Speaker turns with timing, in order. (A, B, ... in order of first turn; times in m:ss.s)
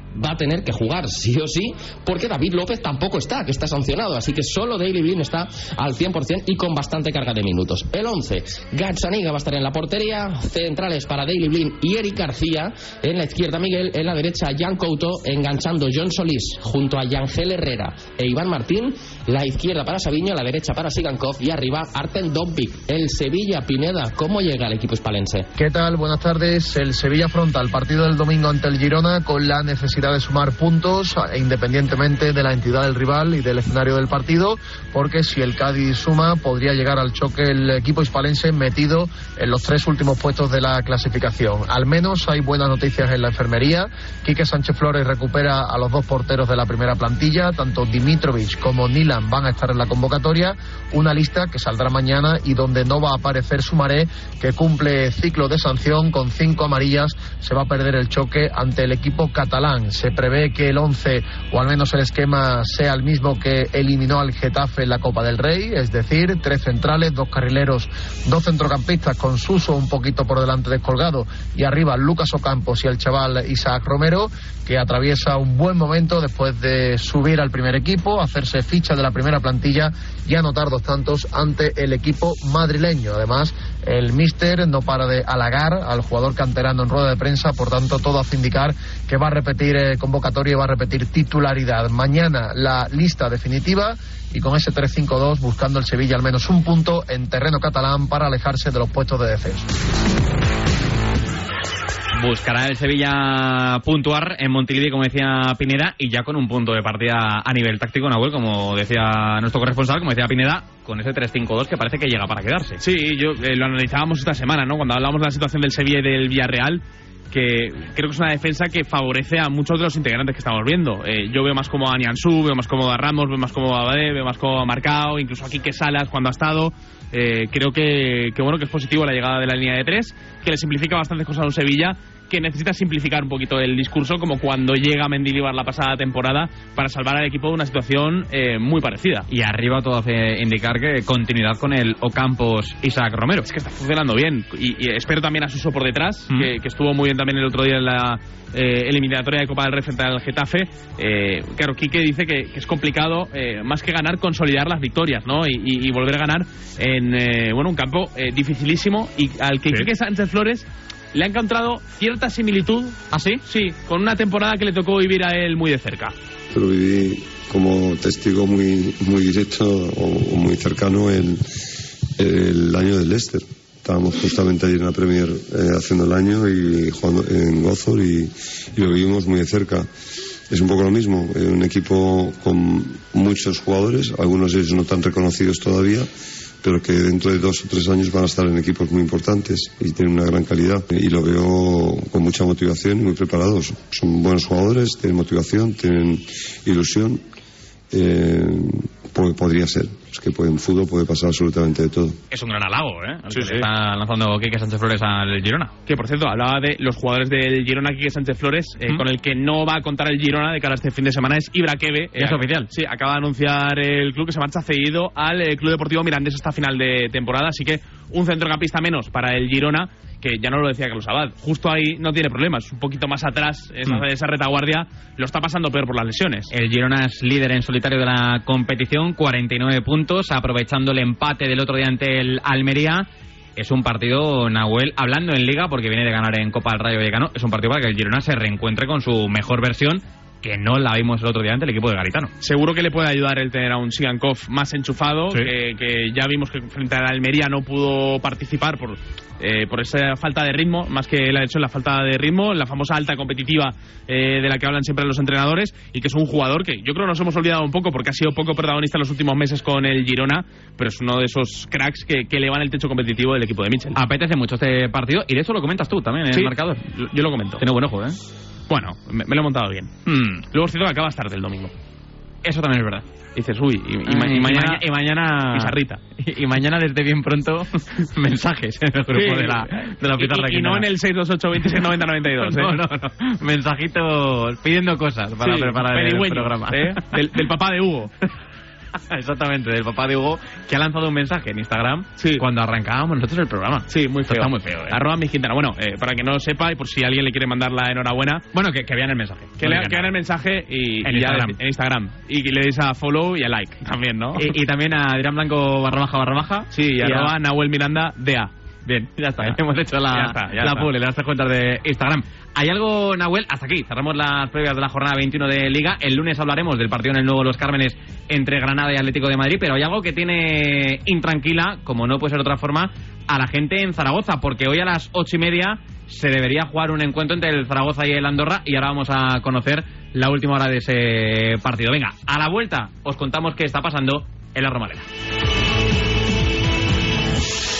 0:00.1-0:25.5 A
0:25.6-1:39.7 B
1:42.1-1:52.8 C
1:52.8-2:19.3 D
2:19.3-2:23.4 C
2:23.4-2:46.1 D
2:43.1-2:43.4 C
2:46.5-2:51.5 E
2:52.2-2:59.9 E
3:00.5-3:06.1 E
3:06.6-3:17.2 E
3:17.9-3:22.2 E
3:22.3-3:25.7 C
3:25.8-3:46.5 D
3:32.2-3:32.7 C
3:46.5-4:02.3 C
4:02.4-4:24.0 D
4:23.9-4:26.8 C
4:26.3-4:27.6 D
4:27.6-4:28.2 C
4:28.7-4:29.9 D
4:30.1-4:30.4 C
4:30.5-4:31.7 D
4:32.4-4:33.0 C
4:33.3-4:36.0 D
4:34.1-4:40.9 C
4:39.1-4:42.8 D
4:42.4-4:47.2 C
4:45.4-4:48.1 D
4:49.1-4:55.0 C
4:52.2-4:52.4 D
4:53.9-4:58.4 D
4:58.5-5:00.1 C
4:59.6-5:04.5 D
5:01.0-5:01.6 C
5:04.4-5:07.3 C
5:06.7-5:08.5 D
5:08.8-5:35.1 C
5:09.4-5:10.9 D